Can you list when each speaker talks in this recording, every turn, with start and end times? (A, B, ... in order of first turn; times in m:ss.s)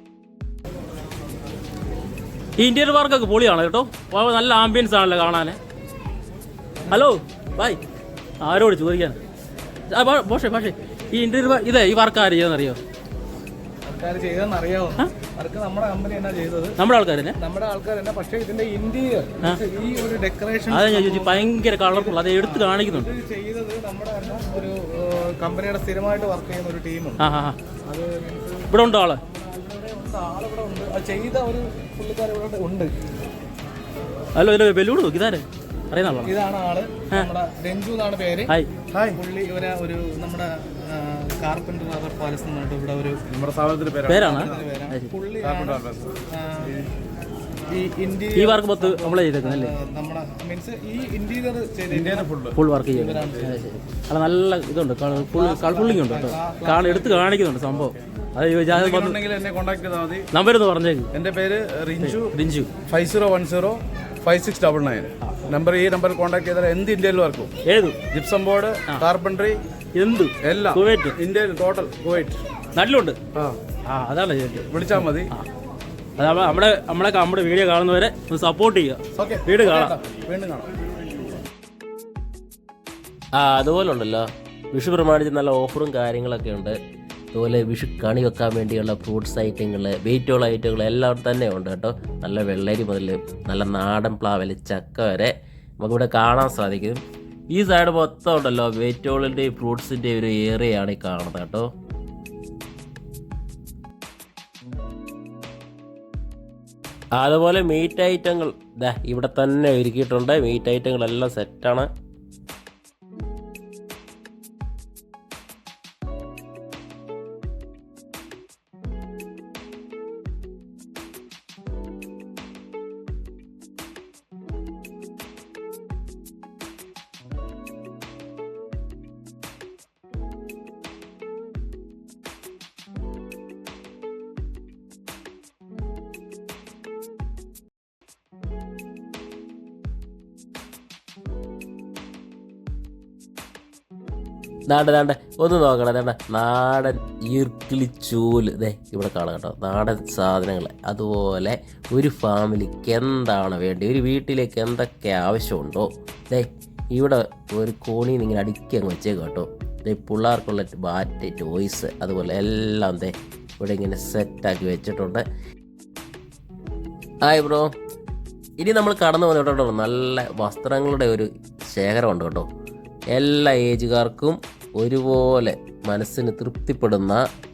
0:02.6-0:05.6 A
0:06.9-0:07.8 A
0:08.4-0:09.2 A
0:09.9-0:12.8 A
0:13.8-0:16.8 B
0:16.8-0:17.4 A
0:17.4-0:27.2 B
0:20.7-0:23.1 A
0:27.2-0:27.6 A
0:27.8-0:28.7 B
0:28.7-0:29.2 A
0:29.3-0:32.9 B
0:34.3-0:36.4 A
0:36.2-0:43.2 B
0:43.3-0:44.5 C
0:44.0-0:45.1 A
0:44.3-0:46.8 B
0:45.4-0:46.2 C
0:47.7-0:52.3 B
0:48.3-0:49.7 A
0:51.9-0:52.5 C
0:52.5-0:59.2 A
0:52.9-0:53.6 B
0:55.3-0:57.2 B
0:58.7-1:00.3 C
1:00.3-1:01.1 A
1:01.1-1:02.3 C
1:02.0-1:02.7 A
1:02.9-1:07.5 C
1:07.6-1:08.0 A
1:08.1-1:09.6 C
1:09.9-1:11.2 A
1:10.4-1:12.4 C
1:12.7-1:13.2 A
1:13.8-1:15.4 A
1:14.7-1:15.3 C
1:16.2-1:20.0 A
1:19.2-1:20.7 C
1:23.3-1:26.8 D
1:27.3-1:37.0 D
1:37.5-1:41.7 D
1:47.2-1:51.9 D
2:24.7-2:45.2 D
2:47.2-2:47.7 D
2:48.6-2:52.5 D
2:53.1-2:57.2 D